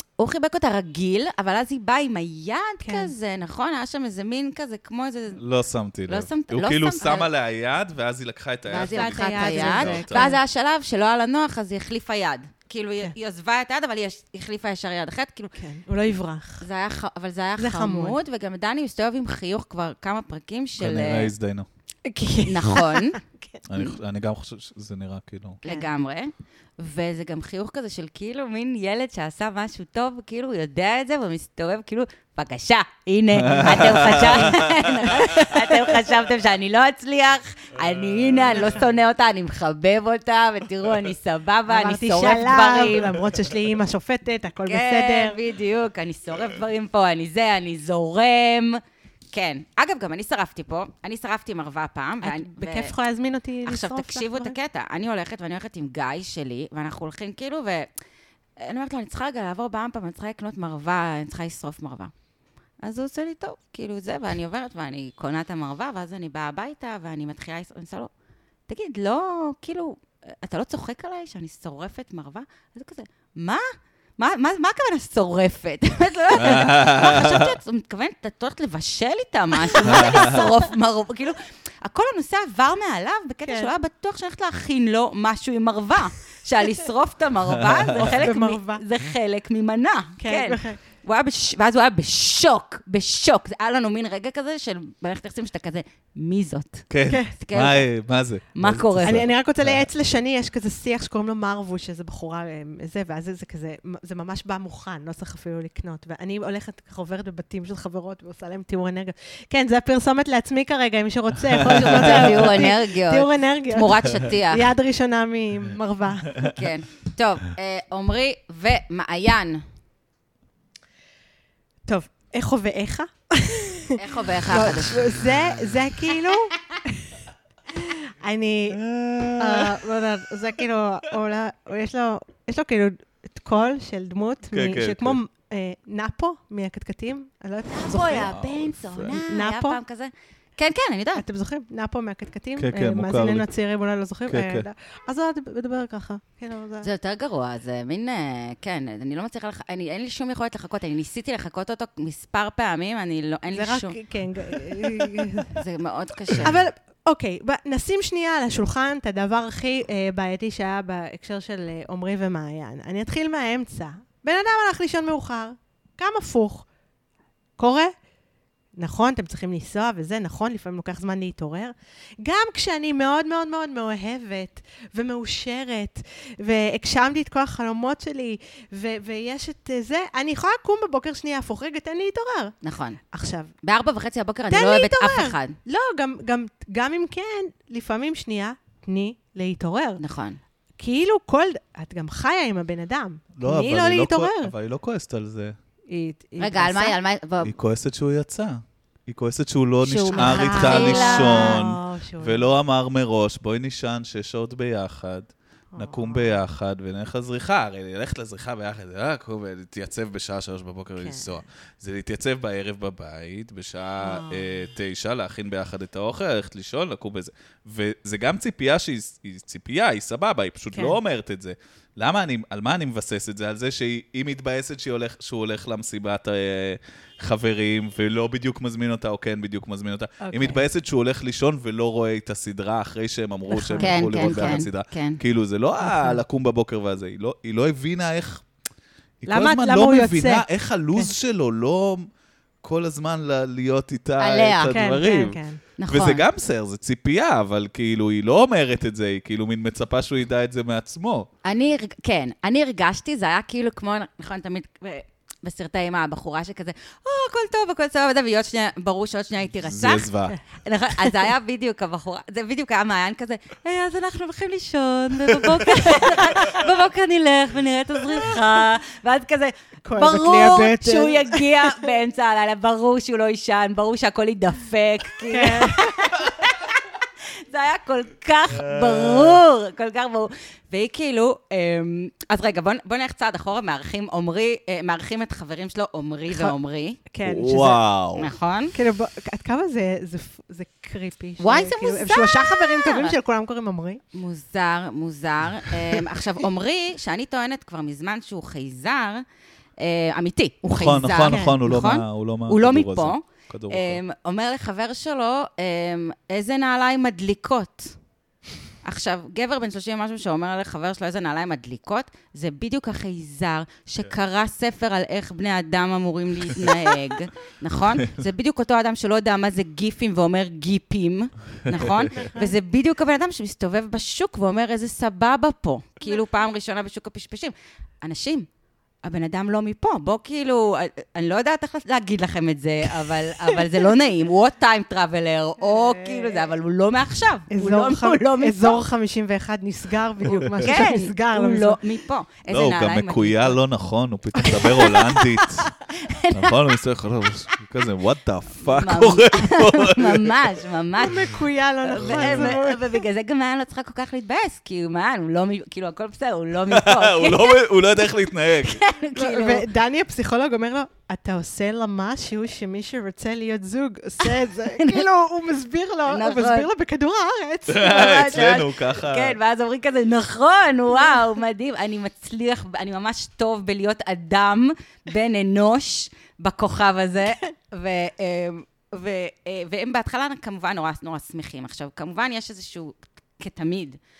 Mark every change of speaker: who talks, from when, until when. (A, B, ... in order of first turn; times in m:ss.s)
0:00.2-0:05.4 A
0:02.8-0:03.1 B
0:05.4-0:10.3 C
0:06.1-0:07.3 A
0:08.7-0:15.5 A
0:08.8-0:10.4 B
0:15.6-0:16.6 B
0:16.6-0:21.3 A
0:17.6-0:18.2 B
0:20.8-0:21.7 C
0:22.0-0:23.6 B
0:22.4-0:23.2 A
0:23.7-0:25.6 C
0:25.6-0:43.1 A
0:33.3-0:34.7 C
0:35.1-0:35.6 B
0:38.6-0:38.8 B
0:41.7-0:45.4 B
0:44.6-0:48.8 A
0:49.3-0:52.9 A
0:52.2-0:54.6 B
0:53.6-0:57.9 A
0:58.6-1:02.1 A
1:02.8-1:08.1 A
1:08.7-1:13.6 A
1:14.2-1:37.9 A
1:16.3-1:17.5 C
1:19.8-1:20.5 B
1:19.8-1:20.4 C
1:23.4-1:23.7 B
1:28.0-1:28.8 B
1:30.2-1:30.8 B
1:36.9-1:39.9 C
1:37.1-1:37.3 B
1:38.5-1:39.2 A
1:39.0-1:56.5 B
1:51.7-1:54.7 A
1:52.0-1:52.4 C
1:56.4-1:59.6 A
2:01.9-2:07.1 B
2:04.0-2:05.1 A
2:07.7-2:08.8 B
2:08.7-2:09.9 C
2:09.4-2:18.3 B
2:14.5-2:15.2 C
2:17.7-2:21.2 A
2:18.0-2:19.1 C
2:19.1-2:19.8 B
2:21.2-2:26.9 B
2:22.6-2:23.5 C
2:24.3-2:24.7 C
2:26.8-2:34.0 A
2:33.5-2:35.6 B
2:34.7-2:36.5 A
2:36.4-2:46.6 B
2:47.6-2:47.9 B
2:48.8-3:02.6 B
3:02.6-3:03.0 A
3:03.1-3:03.5 B
3:03.6-3:05.6 A
3:04.5-3:10.0 B
3:10.0-3:10.4 A
3:10.8-3:14.5 B
3:13.4-3:15.6 C
3:15.9-3:17.0 B
3:16.4-3:17.5 A
3:17.4-3:58.4 C
3:19.8-3:21.6 A
3:20.1-3:22.5 B
3:25.7-3:26.4 B
3:31.0-3:31.3 B
3:34.0-3:34.6 B
3:40.7-3:41.0 B
3:50.2-3:50.6 B
3:53.5-3:54.6 B
3:53.8-3:55.2 A
3:55.8-3:56.2 B
3:59.2-4:02.1 C
3:59.3-4:01.1 B
4:02.6-4:11.3 C
4:04.2-4:04.8 A
4:04.7-4:05.6 B
4:05.8-4:06.2 A
4:11.4-4:20.1 A
4:19.6-4:20.4 C
4:20.6-4:36.8 A
4:29.8-4:31.9 B
4:35.3-4:36.2 B
4:37.5-4:47.0 A
4:38.6-4:39.4 C
4:46.3-4:46.5 B
4:47.1-4:47.8 B
4:47.2-4:48.3 C
4:48.2-4:48.7 A
4:48.7-4:54.0 B
4:51.4-4:53.1 A
4:54.1-4:59.2 A
4:59.8-5:08.0 A
5:00.6-5:04.0 C
5:01.3-5:01.6 B
5:08.8-5:28.5 A
5:21.8-5:22.6 B
5:29.0-5:38.8 A
5:35.6-5:36.5 B
5:37.5-5:41.8 B
5:40.3-5:40.6 C
5:40.6-5:43.6 A
5:42.5-5:45.7 C
5:44.4-5:45.0 A
5:46.0-5:46.6 A
5:46.3-5:50.4 C
5:48.6-5:51.3 A
5:51.0-5:53.0 B
5:51.8-5:57.7 A
5:52.0-5:52.6 C
5:56.7-5:58.8 C
5:58.6-5:59.6 A
5:59.1-6:08.5 B
6:04.4-6:05.0 A
6:06.1-6:06.7 A
6:07.7-6:09.4 C
6:07.8-6:24.0 A